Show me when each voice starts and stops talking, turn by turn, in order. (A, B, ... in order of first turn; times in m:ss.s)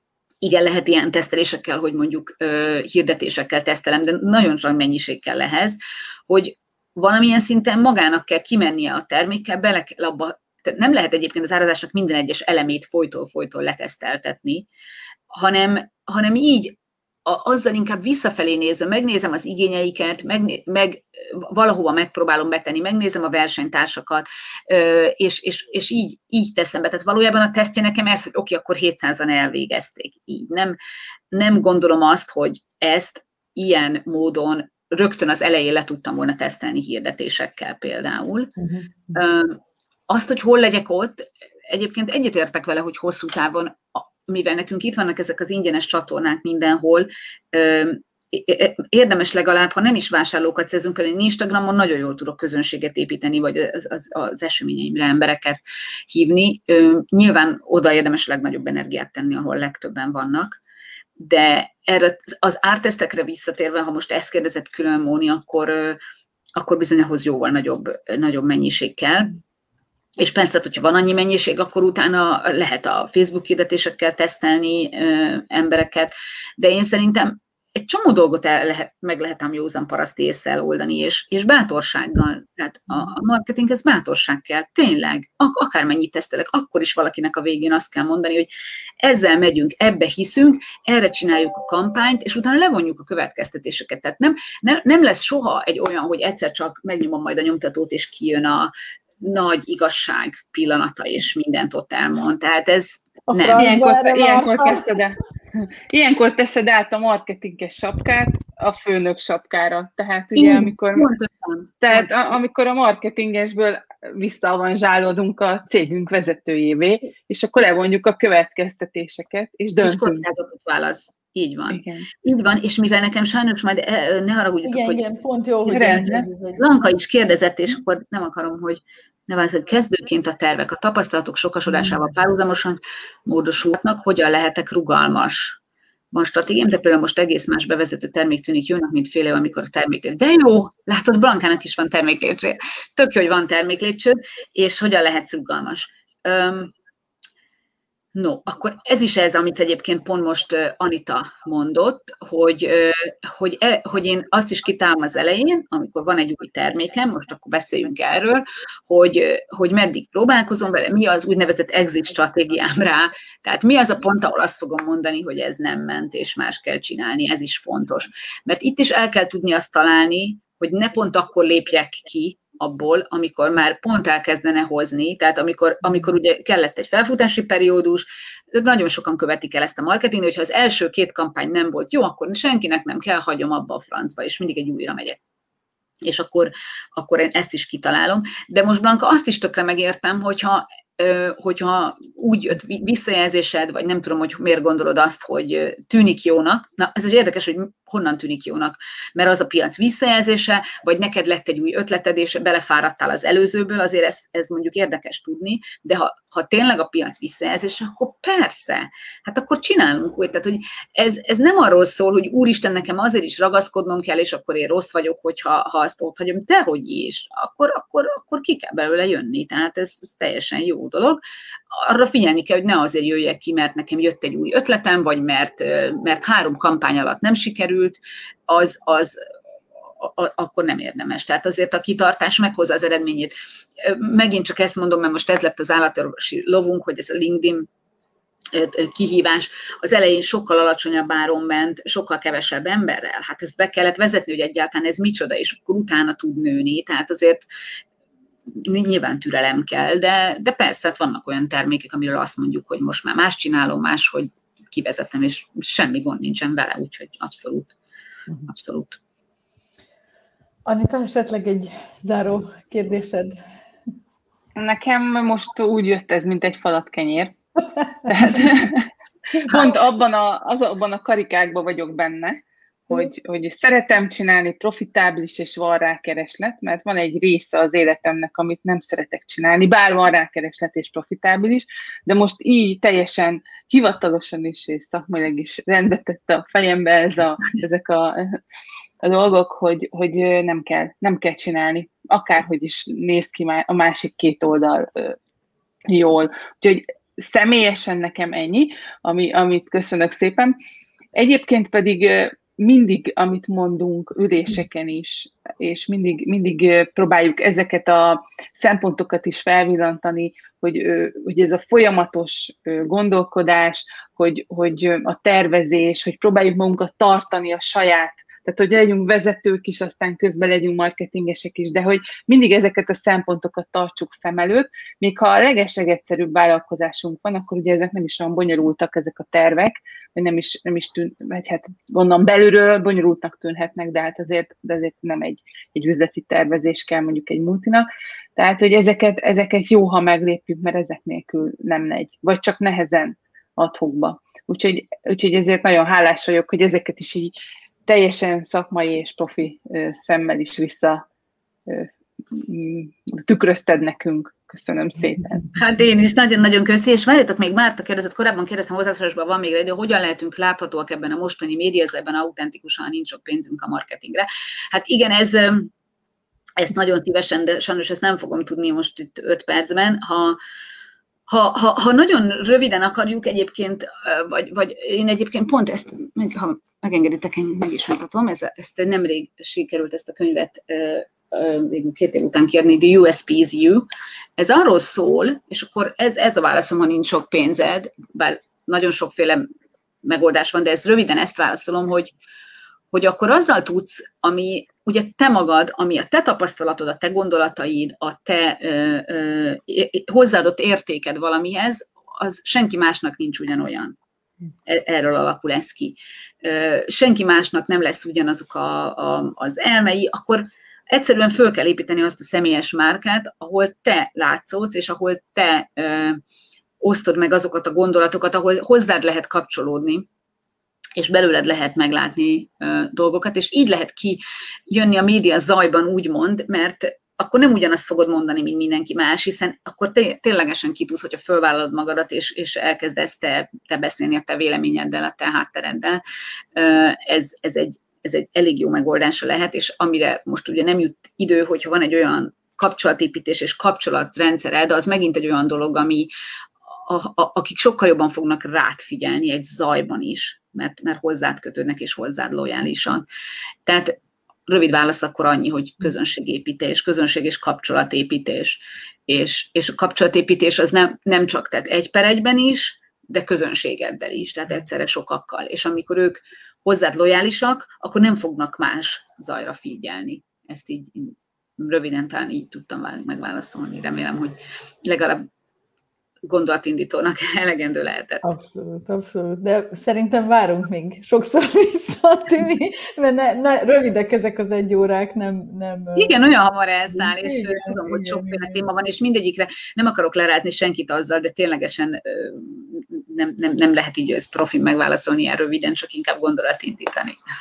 0:00.4-0:14.7 A
0:15.3-0:16.8 A
0:17.3-0:30.8 A
0:31.3-0:38.5 A
0:38.6-0:38.9 B
0:39.1-1:00.6 A
1:01.2-1:06.0 A
1:06.6-1:09.4 A
1:10.2-1:28.5 A
1:29.0-1:43.7 A
1:43.3-1:44.9 B
1:43.6-1:45.2 C
1:45.9-1:51.1 C
1:50.4-1:52.1 A
1:51.8-2:00.2 C
1:59.8-2:05.0 A
2:01.7-2:02.1 C
2:04.6-2:06.7 B
2:05.7-2:06.3 C
2:06.6-2:15.6 A
2:16.1-2:26.7 A
2:28.2-3:05.2 A
3:06.0-3:41.2 A
3:41.7-3:49.2 A
3:50.0-3:57.7 A
3:58.5-4:07.4 A
4:08.5-4:17.7 A
4:18.5-4:19.0 A
4:20.7-4:23.4 B
4:24.6-4:27.4 C
4:28.1-4:28.9 C
4:29.5-4:48.4 C
4:49.0-4:55.2 C
4:55.9-5:00.6 C
5:01.1-5:47.3 C
5:47.9-5:51.0 C
5:51.7-5:55.5 C
5:55.5-6:05.7 A
6:06.6-6:10.4 A
6:11.3-6:29.4 A
6:30.0-6:32.1 A
6:32.9-6:44.0 A
6:44.7-6:56.2 A
6:56.8-7:00.1 A
7:01.0-7:16.0 A
7:16.6-7:26.1 A
7:26.8-7:33.0 A
7:33.6-7:34.0 A
7:34.5-7:55.3 A
7:56.2-7:58.2 A
7:58.2-8:06.2 B
8:06.0-8:17.2 A
8:06.9-8:08.6 B